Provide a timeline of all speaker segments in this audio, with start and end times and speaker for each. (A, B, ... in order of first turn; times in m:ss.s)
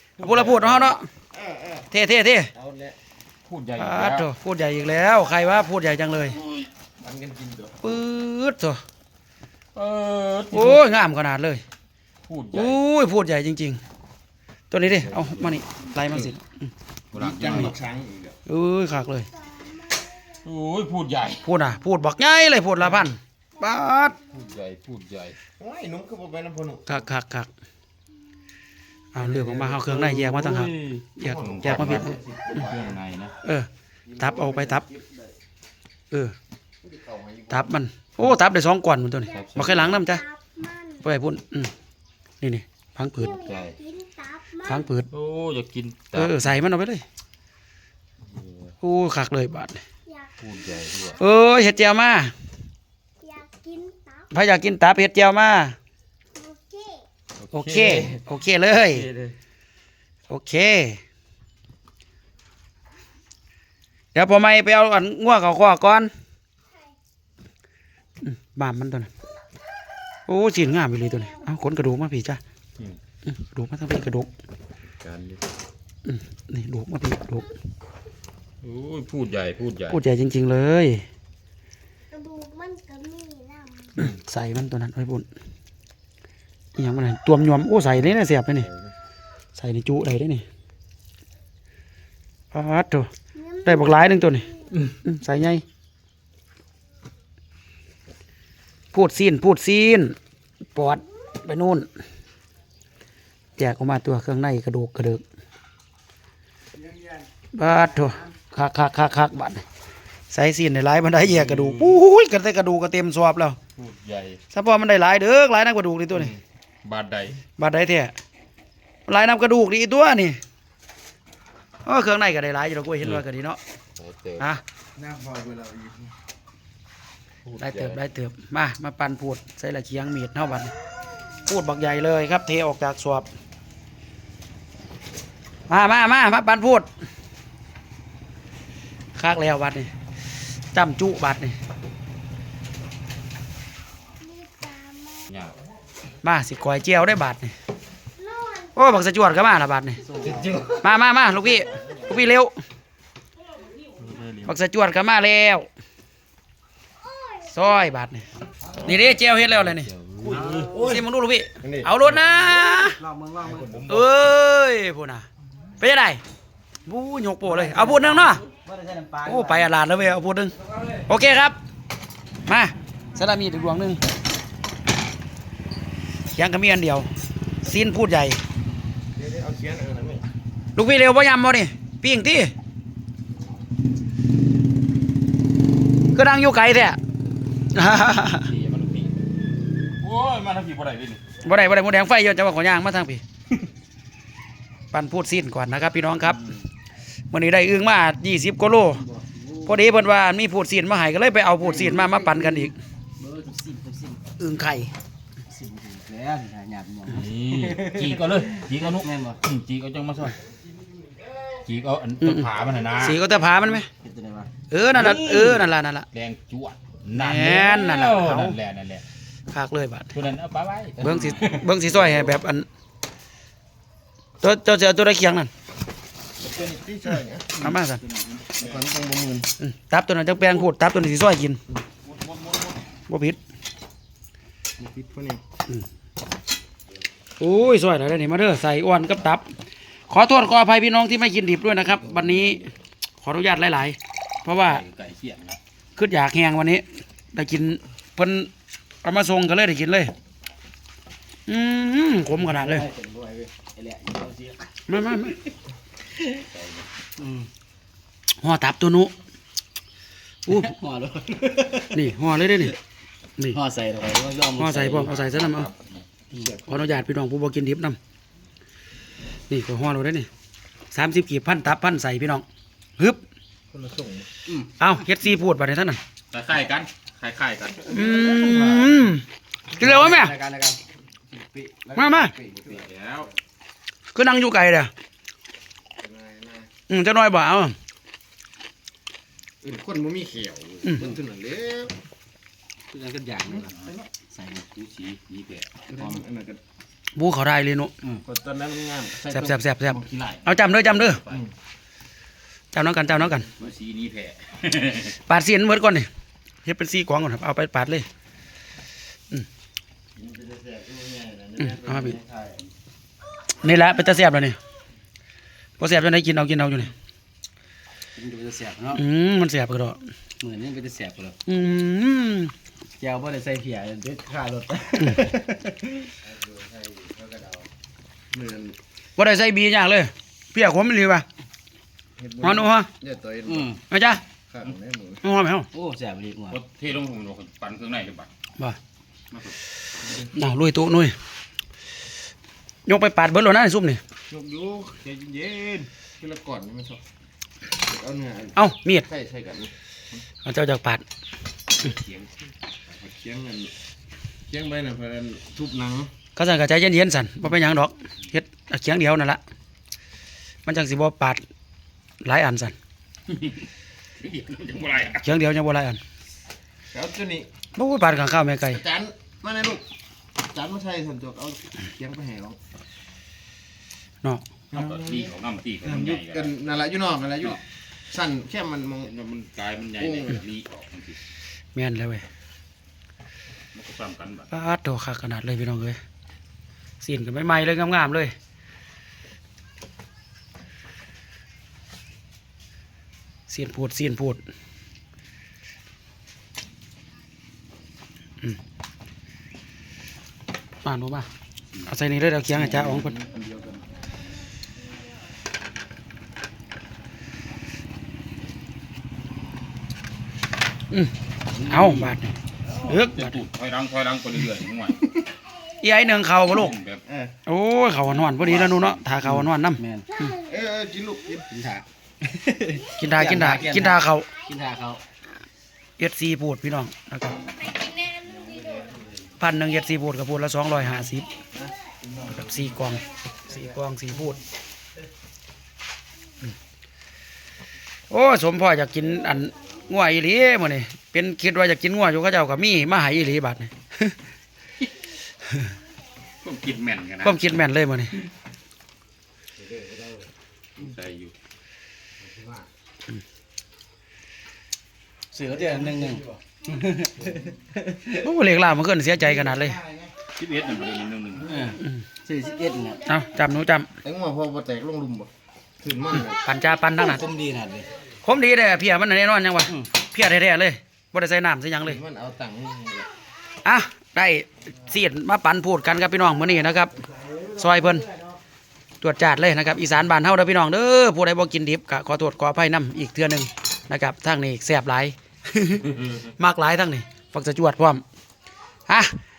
0:00.2-0:01.0 A
0:00.2-0:01.1 B
0:01.4-0:01.8 C
0:01.9-0:02.5 B
0:02.5-0:03.0 C
0:03.5-0:04.3 A
0:03.8-0:06.4 B
0:07.0-0:07.8 C
0:07.8-0:08.8 B
0:09.8-0:10.9 A
0:10.5-0:11.6 B
0:12.3-0:12.8 A
0:12.5-0:13.8 B
0:14.7-0:16.7 B
0:14.9-0:15.6 A
0:17.1-0:17.8 A
0:17.1-0:18.4 C
0:18.5-0:19.3 B
0:20.4-0:21.5 A
0:21.4-0:24.2 B
0:24.3-0:25.4 A
0:25.6-0:27.0 C
0:26.9-0:27.5 B
0:29.2-0:32.1 B
0:29.2-0:33.4 A
0:31.2-0:33.0 C
0:33.4-0:34.9 B
0:34.1-0:35.2 C
0:36.8-0:37.7 C
0:37.5-0:40.2 B
0:39.3-0:40.0 A
0:40.3-0:41.0 D
0:41.0-0:41.7 B
0:42.4-0:43.4 B
0:43.3-0:43.8 A
0:43.8-0:44.6 D
0:44.6-0:45.1 B
0:45.1-0:46.5 A
0:46.1-0:47.0 B
0:48.8-0:49.8 B
0:50.4-0:51.2 A
0:51.2-0:52.3 B
0:53.2-0:54.2 D
0:54.3-0:55.8 B
0:56.4-0:57.0 D
0:57.4-0:58.2 A
0:57.5-0:59.1 B
0:58.9-0:59.3 A
1:00.3-1:01.0 B
1:04.1-1:06.1 B
1:08.2-1:09.1 B
1:10.3-1:12.4 B
1:13.2-1:14.3 B
1:15.0-1:15.4 A
1:16.0-1:17.5 B
1:18.6-1:20.0 A
1:19.9-1:21.0 B
1:22.1-1:23.9 D
1:24.0-1:25.3 B
1:26.8-1:28.7 B
1:29.6-1:30.4 B
1:32.5-1:33.1 B
1:33.6-1:35.6 B
1:38.9-1:40.2 B
1:40.7-1:41.9 B
1:43.6-1:45.2 B
1:47.5-1:49.6 B
1:50.3-1:53.6 B
1:51.3-1:52.0 A
1:53.8-1:54.4 A
1:54.5-1:56.3 B
1:56.1-1:57.4 A
1:57.6-1:58.2 B
1:59.1-2:00.4 B
2:01.8-2:03.6 B
2:04.0-2:04.4 A
2:05.0-2:06.1 C
2:07.5-2:08.0 A
2:07.6-2:10.7 B
2:11.5-2:13.3 B
2:15.7-2:16.9 B
2:19.2-2:19.9 B
2:20.7-2:21.6 B
2:24.3-2:25.3 D
2:25.3-2:25.6 A
2:26.2-2:27.5 B
2:28.2-2:28.7 D
2:28.8-2:30.0 B
2:30.1-2:30.7 E
2:30.7-2:32.6 B
2:34.0-2:34.5 A
2:34.5-2:35.7 B
2:37.5-2:38.3 B
2:38.8-2:39.9 B
2:39.6-2:40.7 A
2:40.5-2:40.9 E
2:40.8-2:43.0 B
2:41.6-2:41.9 C
2:42.4-2:43.7 E
2:43.7-2:44.0 A
2:43.9-2:45.3 B
2:45.8-2:46.2 B
2:46.9-2:48.4 B
2:48.5-2:49.7 E
2:49.2-2:51.6 B
2:52.5-2:54.0 B
2:56.4-2:57.1 B
2:57.6-2:58.4 B
2:59.2-3:00.2 C
3:00.8-3:02.5 B
3:06.1-3:07.0 B
3:07.7-3:08.5 B
3:08.4-3:09.2 A
3:10.0-3:11.2 A
3:11.4-3:13.2 B
3:14.9-3:16.5 B
3:17.3-3:19.0 B
3:19.0-3:19.8 E
3:19.6-3:22.8 B
3:21.6-3:24.2 E
3:24.4-3:24.9 B
3:25.5-3:29.4 E
3:27.1-3:30.4 A
3:31.6-3:33.2 A
3:32.2-3:33.9 B
3:34.0-3:34.5 E
3:34.7-3:36.1 B
3:34.9-3:39.0 A
3:37.1-3:38.6 B
3:39.5-3:40.1 B
3:40.1-3:42.3 A
3:41.0-3:42.7 B
3:44.4-3:45.5 B
3:46.4-3:47.6 C
3:47.6-3:48.0 B
3:48.0-3:48.8 A
3:48.6-3:49.5 C
3:49.6-3:51.6 B
3:52.0-3:52.8 A
3:53.1-3:53.4 B
3:54.8-3:55.4 C
3:57.4-3:59.4 B
4:00.1-4:04.8 B
4:04.5-4:05.6 A
4:06.0-4:08.5 B
4:09.0-4:10.1 B
4:11.5-4:12.8 B
4:12.4-4:14.7 E
4:14.9-4:15.4 B
4:16.4-4:16.9 A
4:17.2-4:17.5 E
4:18.4-4:19.1 B
4:20.5-4:20.7 B
4:20.5-4:22.0 E
4:21.9-4:22.8 B
4:23.5-4:25.1 E
4:24.6-4:25.7 B
4:25.1-4:25.9 A
4:26.7-4:28.0 B
4:29.5-4:30.3 B
4:30.9-4:32.4 B
4:33.7-4:34.3 C
4:34.5-4:34.7 E
4:34.8-4:36.0 B
4:36.3-4:38.6 A
4:37.9-4:39.2 B
4:38.0-4:38.9 C
4:39.7-4:40.8 E
4:39.8-4:40.3 B
4:41.3-4:42.8 C
4:42.0-4:42.3 B
4:42.7-4:43.3 A
4:44.1-4:44.9 B
4:46.0-4:46.7 C
4:46.9-4:47.8 B
4:49.6-4:51.9 C
4:52.9-4:54.9 E
4:53.7-4:54.0 A
4:54.8-4:56.1 A
4:55.9-4:56.6 C
4:57.2-4:57.9 B
4:58.2-5:00.4 C
4:59.3-5:01.2 B
5:00.9-5:01.4 A
5:02.7-5:03.5 B
5:03.4-5:05.2 A
5:05.3-5:06.1 B
5:06.6-5:08.1 B
5:10.2-5:12.6 C
5:11.7-5:12.2 B
5:13.6-5:14.6 B
5:15.8-5:16.9 B
5:18.2-5:19.0 E
5:18.9-5:20.0 B
5:20.4-5:21.4 E
5:21.5-5:22.5 B
5:23.0-5:26.1 E
5:26.2-5:27.7 C
5:28.3-5:28.8 C
5:29.2-5:31.2 B
5:32.2-5:33.8 C
5:32.4-5:32.9 B
5:33.5-5:33.8 E
5:33.9-5:34.2 B
5:34.5-5:35.2 C
5:35.2-5:35.7 B
5:35.7-5:36.6 E
5:36.5-5:38.3 A
5:39.3-5:39.6 A
5:40.2-5:41.2 B
5:42.9-5:44.0 B
5:44.3-5:45.9 A
5:44.4-5:44.9 C
5:46.2-5:47.0 C
5:47.8-5:49.7 C
5:48.6-5:49.1 B
5:50.4-5:51.0 B
5:52.9-5:53.7 C
5:54.5-5:56.1 C
5:56.4-5:59.4 B
6:00.7-6:01.4 B
6:02.2-6:02.7 B
6:03.3-6:03.7 A
6:04.2-6:05.3 A
6:05.2-6:06.0 B
6:06.9-6:07.5 C
6:07.8-6:08.8 B
6:08.7-6:09.8 C
6:10.4-6:12.6 C
6:14.7-6:15.3 C
6:14.7-6:16.5 A
6:15.8-6:19.1 C
6:19.0-6:21.2 A
6:20.0-6:20.4 C
6:21.8-6:22.2 B
6:23.7-6:24.5 A
6:24.5-6:26.0 B
6:27.0-6:28.3 B
6:33.5-6:34.4 B
6:40.8-6:41.3 B
6:41.8-6:43.2 B
6:42.6-6:43.7 E
6:50.9-6:53.4 B
6:51.6-6:52.1 E
6:52.8-6:55.0 A
6:55.8-6:56.8 B
6:56.5-6:57.1 A
6:57.1-6:57.4 C
6:57.5-6:59.8 B
6:58.1-6:59.0 A
6:59.2-7:00.3 E
7:00.3-7:01.5 C
7:01.5-7:05.0 E
7:03.0-7:04.3 B
7:06.0-7:07.4 B
7:08.4-7:09.0 C
7:09.4-7:11.3 B
7:11.9-7:12.4 C
7:12.2-7:14.4 B
7:18.1-7:24.2 B
7:26.4-7:27.5 A
7:27.2-7:28.2 B
7:29.6-7:30.3 C
7:30.8-7:31.3 A
7:32.3-7:32.6 C
7:35.3-7:38.0 E
7:38.1-7:39.8 B
7:39.6-7:40.1 C
7:40.4-7:41.7 A
7:41.5-7:43.0 E
7:43.1-7:43.9 B
7:44.0-7:45.3 C
7:45.8-7:46.4 C
7:46.3-7:47.2 B
7:47.0-7:47.9 E
7:48.2-7:52.0 B
7:51.8-7:53.1 C
7:53.6-7:56.9 B
7:57.5-7:58.1 B
7:59.0-8:08.0 B